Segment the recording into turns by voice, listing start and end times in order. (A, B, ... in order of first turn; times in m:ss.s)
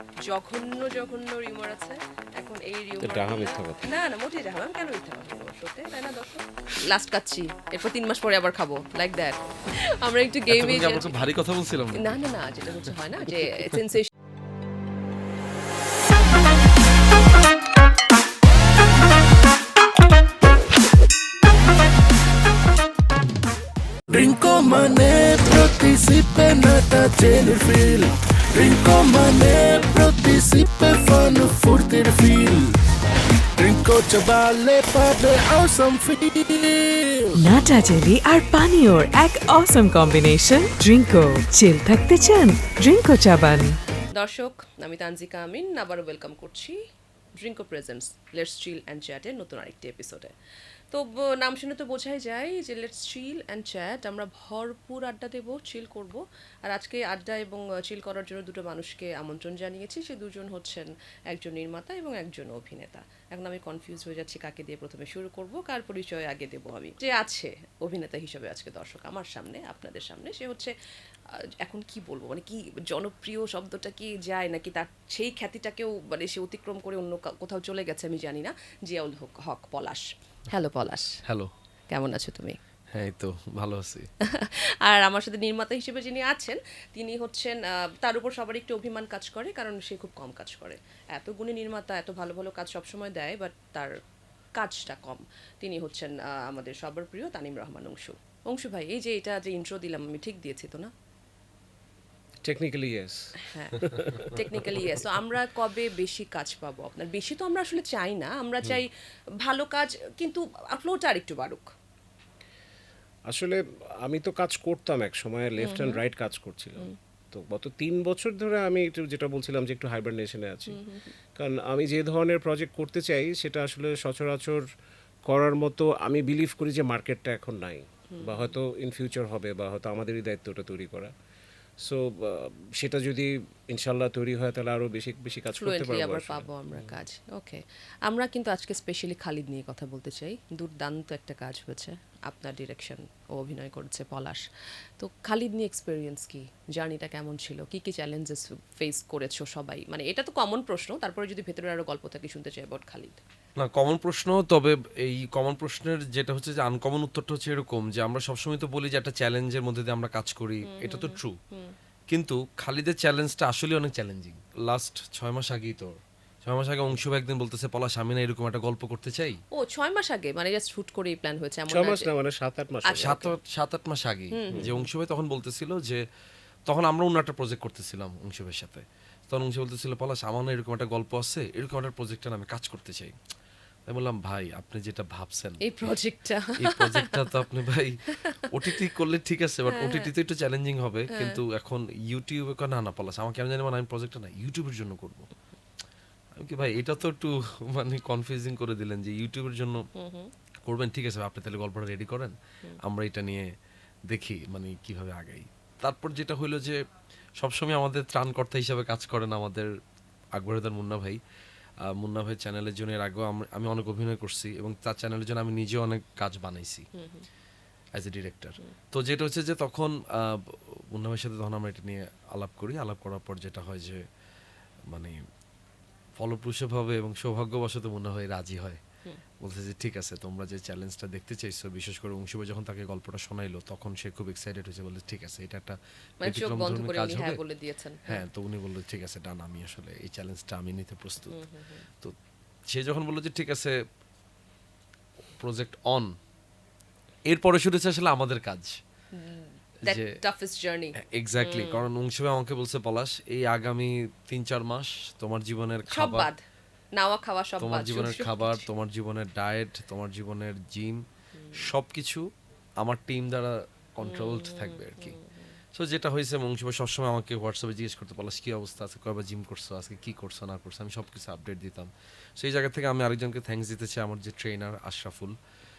0:00.2-0:11.3 A
0:03.0-0:03.8 B
0:10.5-0:12.2 C
0:11.9-0:14.1 A
0:24.1-0:32.7 D
0:33.6-0:37.3 D
0:37.3-0:43.8 E
0:44.1-0:46.8 A
0:47.4-0:50.3 A
0:50.9-1:10.7 A
1:11.3-1:21.2 A
1:21.2-1:21.5 C
1:21.9-1:22.6 A
1:22.9-1:24.1 C
1:24.2-1:33.9 A
1:34.5-1:40.9 A
1:42.4-1:45.0 B
1:43.4-1:51.7 A
1:53.3-2:00.8 B
1:55.6-1:56.0 A
2:00.7-2:01.1 A
2:01.3-2:04.7 B
2:05.3-2:11.1 B
2:08.1-2:08.5 A
2:11.8-2:16.9 B
2:15.6-2:24.4 A
2:25.0-2:33.2 A
2:33.6-2:41.4 C
2:40.6-2:41.7 A
2:42.1-2:49.4 C
2:49.5-2:52.1 A
2:51.7-2:53.2 B
2:52.9-2:53.3 A
2:53.0-2:56.0 C
2:54.3-2:54.8 A
2:56.7-3:03.2 C
3:03.9-3:05.9 C
3:05.6-3:07.4 A
3:06.6-3:15.3 C
3:08.2-3:08.8 A
3:09.7-3:10.1 A
3:11.1-3:11.4 A
3:16.4-3:19.8 C
3:20.0-3:20.3 A
3:20.6-3:23.5 C
3:24.1-3:26.8 C
3:27.4-3:29.7 C
3:30.4-3:31.2 C
3:31.8-3:36.9 C
3:36.9-3:37.3 A
3:37.9-3:44.0 C
3:44.9-3:45.2 C
3:46.2-3:48.8 C
3:49.4-3:57.4 C
3:56.2-3:58.2 A
3:58.1-4:01.4 C
4:01.3-4:01.9 A
4:02.7-4:03.8 C
4:05.4-4:06.2 C
4:07.3-4:08.8 C
4:09.1-4:11.8 A
4:09.8-4:10.2 C
4:11.0-4:16.3 C
4:15.9-4:16.4 A
4:16.9-4:18.6 A
4:17.6-4:21.0 C
4:21.4-4:21.7 A
4:21.5-4:22.3 C
4:22.8-4:25.2 C
4:24.0-4:25.6 A
4:25.7-4:35.4 C